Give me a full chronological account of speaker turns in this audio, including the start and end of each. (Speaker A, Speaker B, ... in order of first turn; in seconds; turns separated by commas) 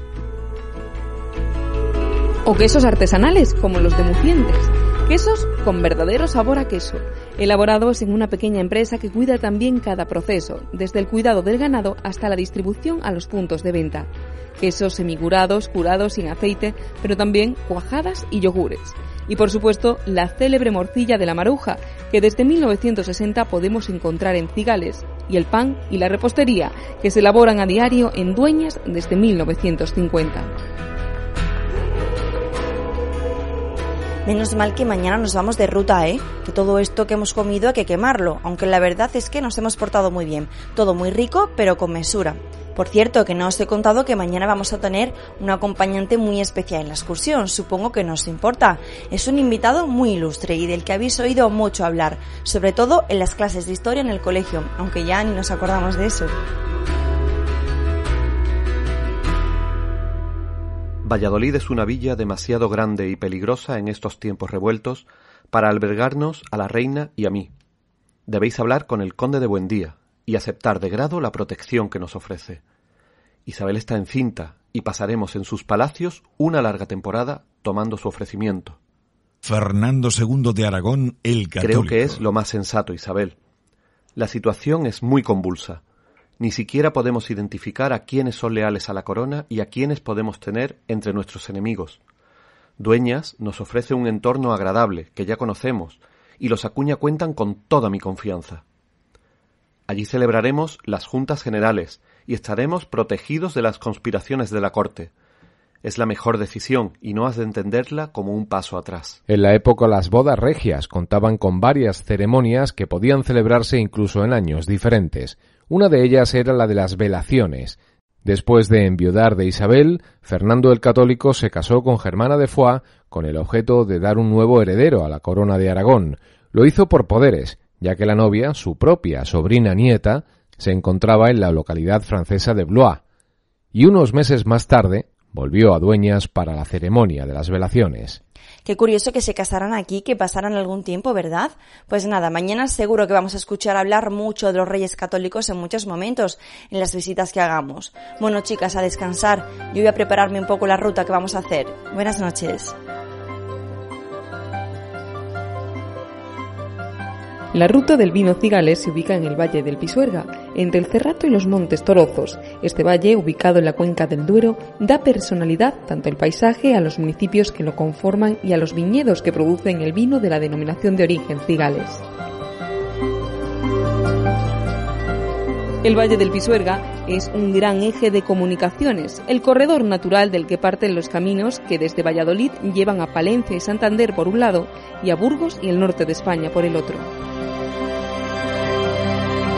Speaker A: 2.5-30.5, Speaker B: 34.2-56.3, Speaker C: 61.0-67.5, Speaker C: 68.3-72.6, Speaker C: 73.5-78.8, Speaker D: 79.4-82.2, Speaker C: 81.6-83.3, Speaker C: 84.2-85.8, Speaker C: 86.4-92.0, Speaker C: 92.8-98.6, Speaker C: 99.9-105.1, Speaker C: 105.8-109.2, Speaker E: 109.3-133.0, Speaker E: 133.7-138.2, Speaker B: 138.7-152.8, Speaker A: 157.5-172.0, Speaker A: 175.8-187.1